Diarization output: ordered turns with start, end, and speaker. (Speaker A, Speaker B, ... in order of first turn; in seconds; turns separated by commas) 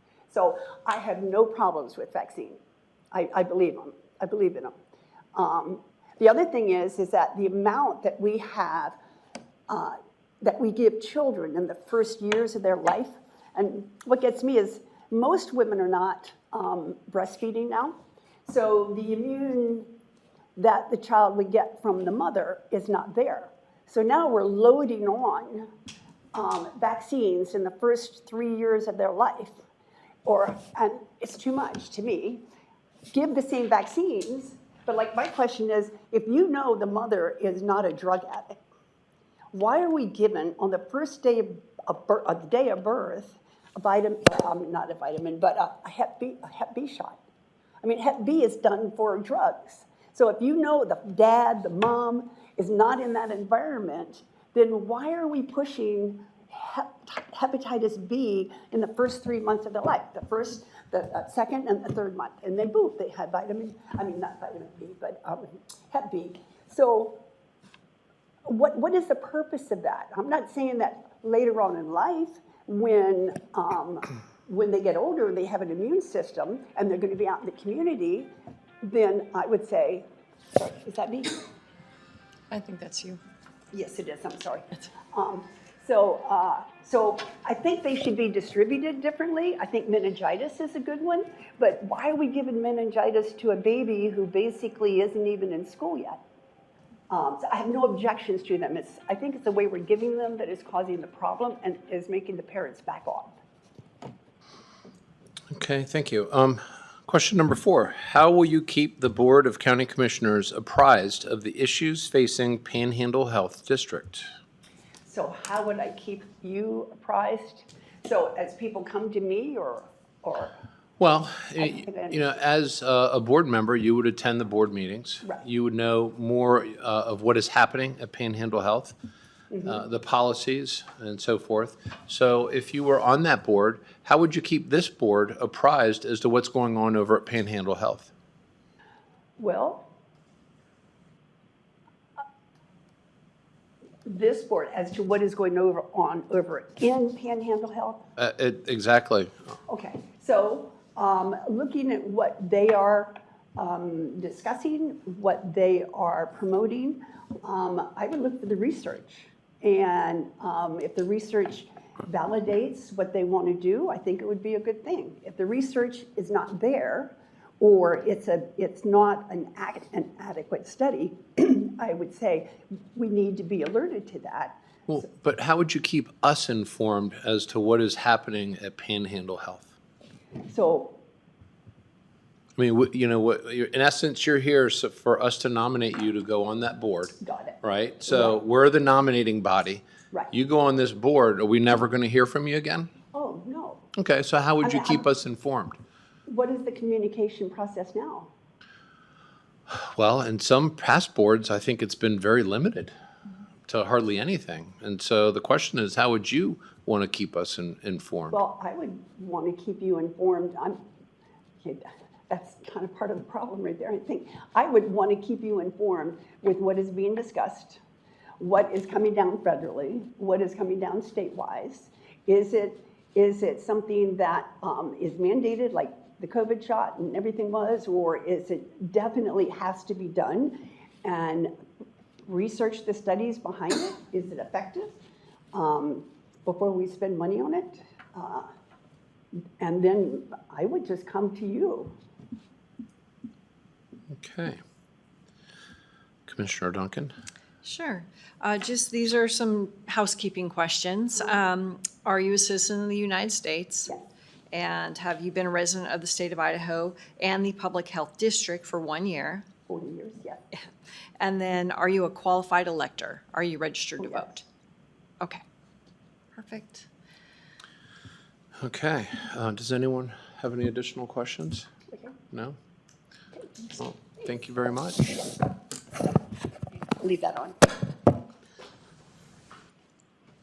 Speaker A: 0.3-2.6, Speaker A: 3.1-4.7, Speaker A: 5.3-9.0, Speaker A: 9.7-19.9, Speaker A: 20.6-25.7, Speaker A: 26.3-29.6, Speaker A: 30.2-32.4, Speaker A: 33.1-38.6, Speaker A: 39.5-47.2, Speaker A: 47.8-67.2, Speaker A: 68.5-81.4, Speaker B: 82.5-83.2, Speaker A: 83.7-96.2, Speaker A: 97.1-103.4, Speaker C: 105.5-114.3, Speaker A: 115.0-120.5, Speaker C: 121.0-128.9, Speaker A: 121.6-122.2, Speaker C: 129.6-138.1, Speaker A: 139.4-139.8, Speaker A: 144.1-148.0, Speaker C: 148.2-149.5, Speaker A: 149.7-174.6, Speaker C: 174.9-179.7, Speaker A: 180.4-181.0, Speaker C: 182.6-192.9, Speaker A: 187.2-188.4, Speaker A: 193.1-193.8, Speaker C: 193.9-195.8, Speaker A: 194.6-195.0, Speaker A: 196.3-198.3, Speaker C: 199.7-202.9, Speaker C: 203.7-208.4, Speaker A: 208.3-210.8, Speaker A: 211.6-217.8, Speaker A: 218.4-231.5, Speaker A: 232.3-234.9, Speaker A: 235.5-238.5, Speaker A: 239.6-241.9, Speaker C: 244.1-244.6, Speaker C: 246.3-247.1, Speaker B: 247.6-254.0, Speaker B: 254.5-259.4, Speaker A: 259.7-260.4, Speaker B: 261.2-264.4, Speaker B: 266.3-266.9, Speaker C: 268.6-271.7, Speaker C: 272.3-272.6, Speaker C: 273.8-275.2, Speaker A: 277.0-277.6